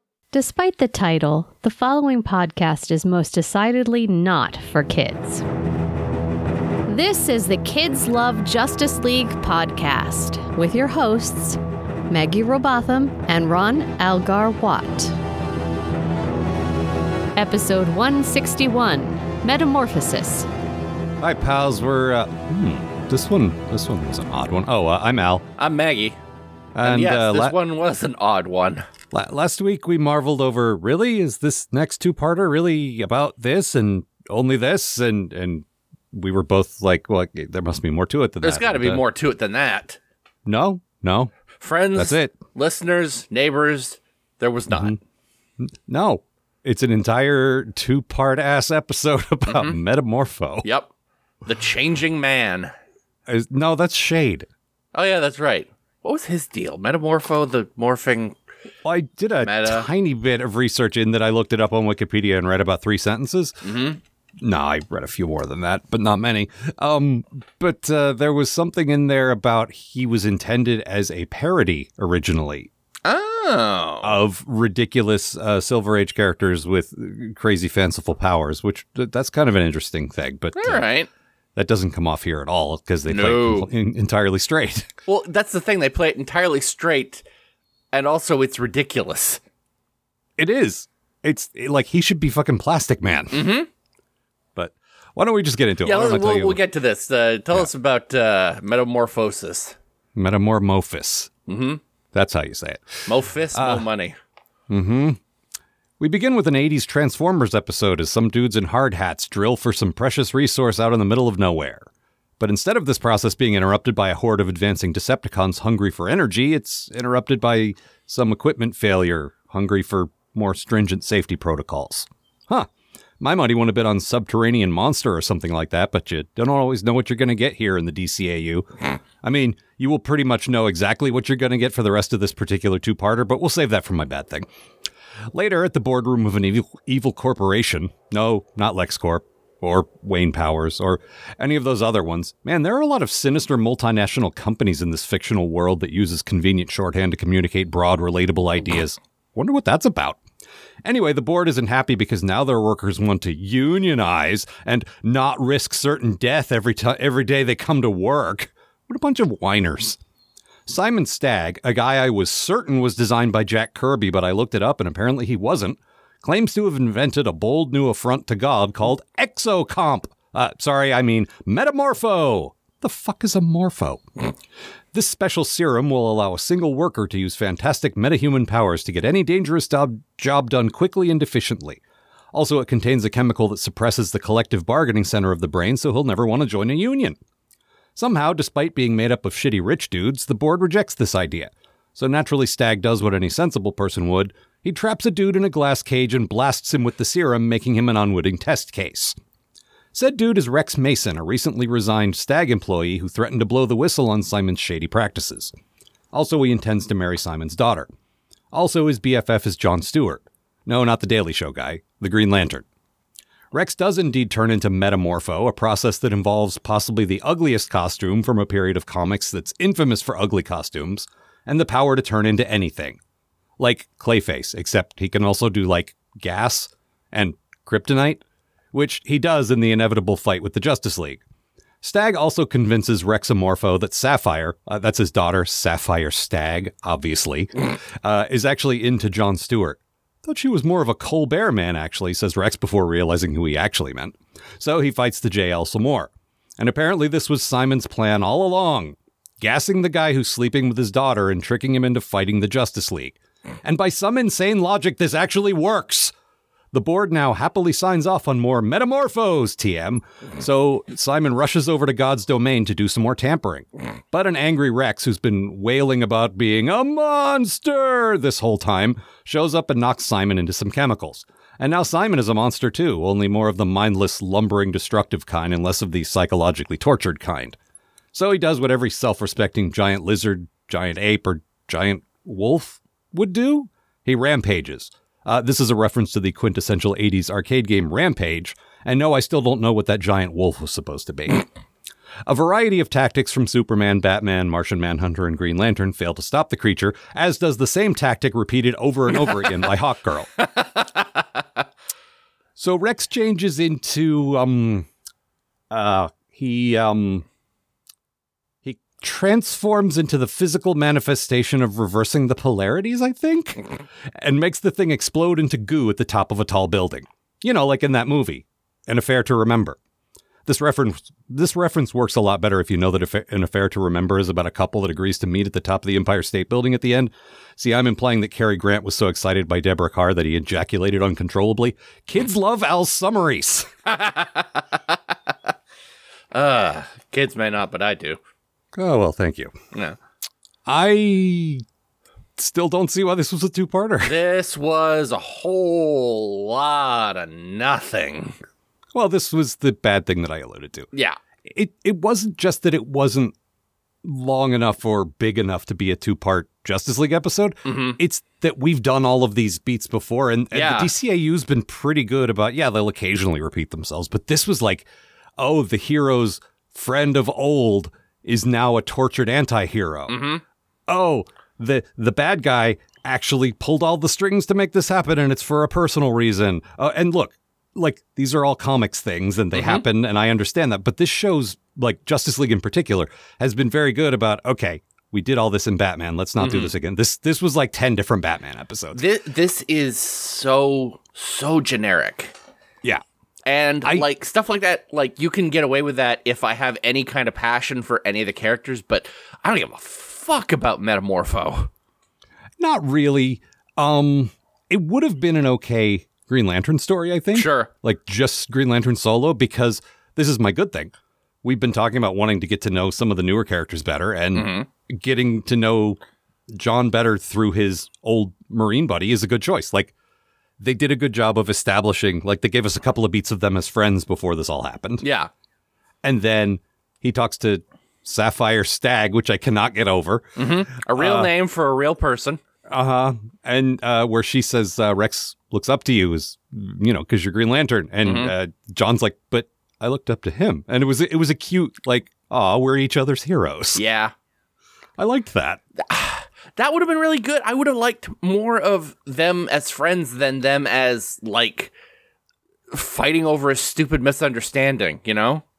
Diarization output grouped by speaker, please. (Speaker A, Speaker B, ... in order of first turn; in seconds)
Speaker A: 0.3-5.4, 6.9-11.6, 12.1-15.2, 17.4-20.5
Speaker B: 21.2-25.5, 26.8-27.6, 29.1-39.0, 40.5-41.3, 42.0-42.3, 44.7-45.0, 45.6-50.7, 53.3-54.5, 58.8-63.6, 64.4-72.7, 74.0-80.8, 81.6-84.9, 90.4-93.5, 94.5-96.6, 100.2-101.3, 102.1-103.9, 104.7-105.2, 106.0-111.9, 112.4-122.7, 123.2-128.7, 129.2-134.5, 135.3-150.2, 150.8-160.0, 160.7-174.1, 174.9-181.8, 182.3-187.2, 188.0-199.2, 199.9-205.5, 206.1-207.9, 208.5-212.7, 213.5-223.0, 223.6-231.2, 231.8-256.1, 256.7-277.6, 278.1-291.5, 292.3-300.3, 302.6-304.9, 305.7-307.2, 308.6-319.8, 320.5-333.7, 338.7-339.5, 340.7-341.6, 342.4-344.2, 348.9-350.9, 351.4-353.3, 354.0-364.9, 365.4-370.2, 370.9-389.0, 402.6-416.0, 416.5-419.9, 420.6-425.0, 426.0-430.3, 430.9-431.3, 432.7-443.8, 445.0-445.6
Speaker C: 25.6-26.2, 26.8-28.9, 38.4-40.0, 41.6-45.0, 49.5-49.8, 50.6-50.9, 51.5-52.7, 54.9-58.4, 59.4-59.9, 63.6-64.0, 73.0-74.2, 80.6-81.1, 83.1-83.7, 85.1-87.2, 87.9-89.4, 93.3-93.7, 95.8-99.8, 101.5-101.8, 103.1-104.2, 300.4-301.2, 333.9-335.0, 336.3-338.2, 344.1-348.4, 350.9-351.2, 357.6-358.0, 360.5-360.9, 370.1-370.4, 379.5-379.9, 386.4-386.7, 388.9-392.3, 393.5-401.7, 407.3-407.7, 414.4-414.7, 425.0-425.3, 430.4-432.4, 438.0-438.3, 443.8-444.1, 445.8-451.7, 452.7-455.4